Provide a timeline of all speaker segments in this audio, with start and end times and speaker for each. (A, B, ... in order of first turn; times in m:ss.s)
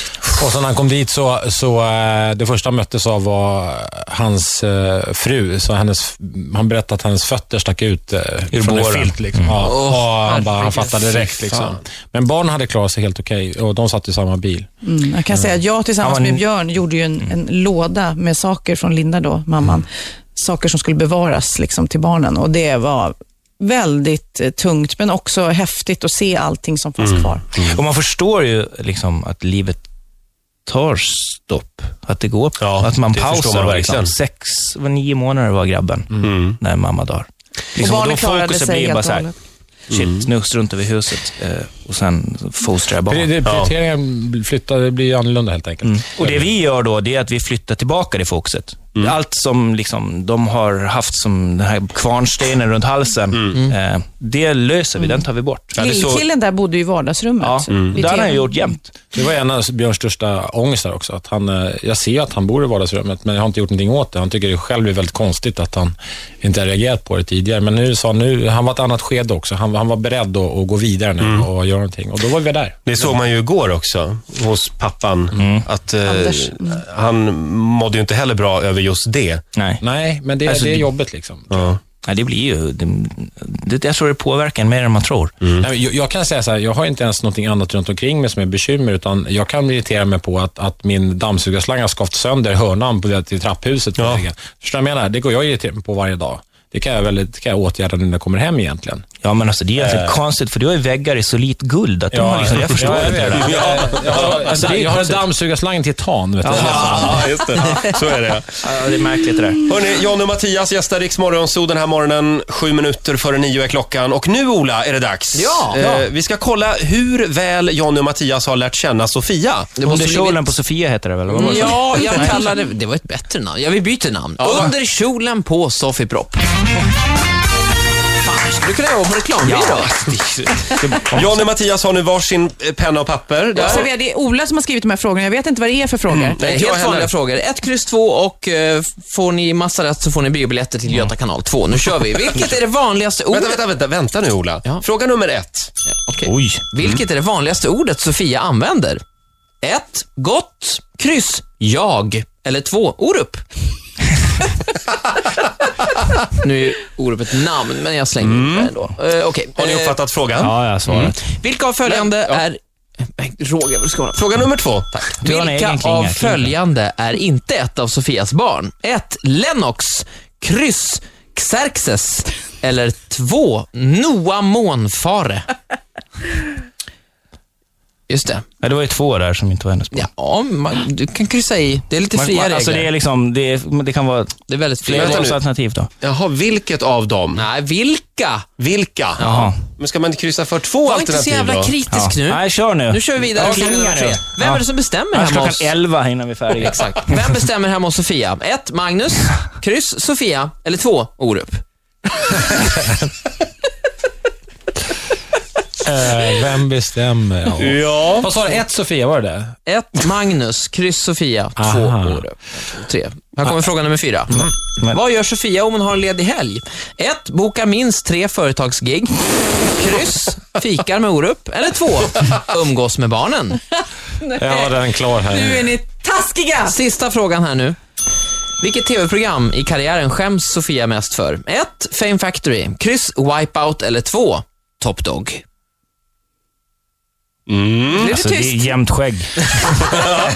0:00.3-0:14.7 A
0:08.5-0:09.6 B
0:09.6-0:11.1 C
0:11.1-0:11.8 D
0:14.8-0:27.4 E
0:16.0-0:16.4 B
0:27.0-0:27.8 D
0:27.7-0:29.8 B
0:30.7-0:39.2 B
0:32.6-0:34.2 D
0:36.2-0:36.6 D
0:37.8-0:39.4 E
0:39.9-0:40.3 D
0:40.0-0:43.4 B
0:43.1-0:46.5 A
0:43.4-0:43.7 D
0:45.8-0:55.8 B
0:55.7-0:56.2 D
0:55.8-0:58.8 E
0:57.4-0:58.9 B
0:57.7-0:58.0 D
0:59.1-1:12.9 A
1:11.2-1:11.5 D
1:12.9-1:19.4 D
1:15.4-1:15.7 B
1:16.0-1:16.8 E
1:19.6-1:19.8 B
1:19.8-1:21.7 A
1:20.4-1:20.9 B
1:21.5-1:21.8 D
1:22.0-1:25.4 B
1:25.4-1:25.7 D
1:25.6-1:39.0 A
1:34.0-1:34.3 D
1:39.2-1:45.2 B
1:39.8-1:40.2 A
1:42.1-1:47.3 A
1:43.4-1:44.4 D
1:46.4-1:47.4 B
1:46.5-1:48.8 D
1:48.6-1:49.7 B
1:49.6-1:59.8 D
1:55.4-1:55.9 C
1:59.8-2:00.4 C
1:59.8-2:02.4 B
2:01.3-2:06.5 C
2:04.4-2:04.7 D
2:08.2-2:09.9 C
2:09.4-2:11.4 B
2:11.0-2:13.9 D
2:13.5-2:16.4 E
2:16.2-2:17.1 D
2:16.4-2:23.6 C
2:23.3-2:25.7 D
2:26.1-2:29.0 C
2:26.2-2:26.7 B
2:29.6-2:33.4 C
2:36.4-2:40.0 C
2:38.2-2:38.8 D
2:39.6-2:41.2 D
2:40.4-2:41.2 B
2:41.3-2:42.6 C
2:41.9-2:42.4 D
2:43.2-2:44.2 C
2:44.2-2:45.2 D
2:45.2-2:46.6 B
2:45.2-2:55.5 C
2:58.1-2:58.5 C
2:58.6-3:00.1 B
2:59.9-3:02.9 C
3:02.1-3:05.9 B
3:04.5-3:05.3 C
3:04.9-3:05.4 D
3:06.0-3:07.5 D
3:07.4-3:08.5 C
3:08.6-3:11.8 D
3:09.2-3:09.6 B
3:10.8-3:15.8 C
3:11.9-3:17.1 B
3:13.5-3:13.9 A
3:16.8-3:21.6 C
3:25.8-3:29.5 A
3:27.6-3:28.3 D
3:29.7-3:43.6 C
3:31.6-3:32.2 A
3:44.2-3:46.8 E
3:44.4-3:45.8 A
3:46.7-3:47.8 C
3:48.6-3:55.4 C
3:57.5-3:58.1 D
3:57.9-3:58.7 E
3:58.0-3:59.9 B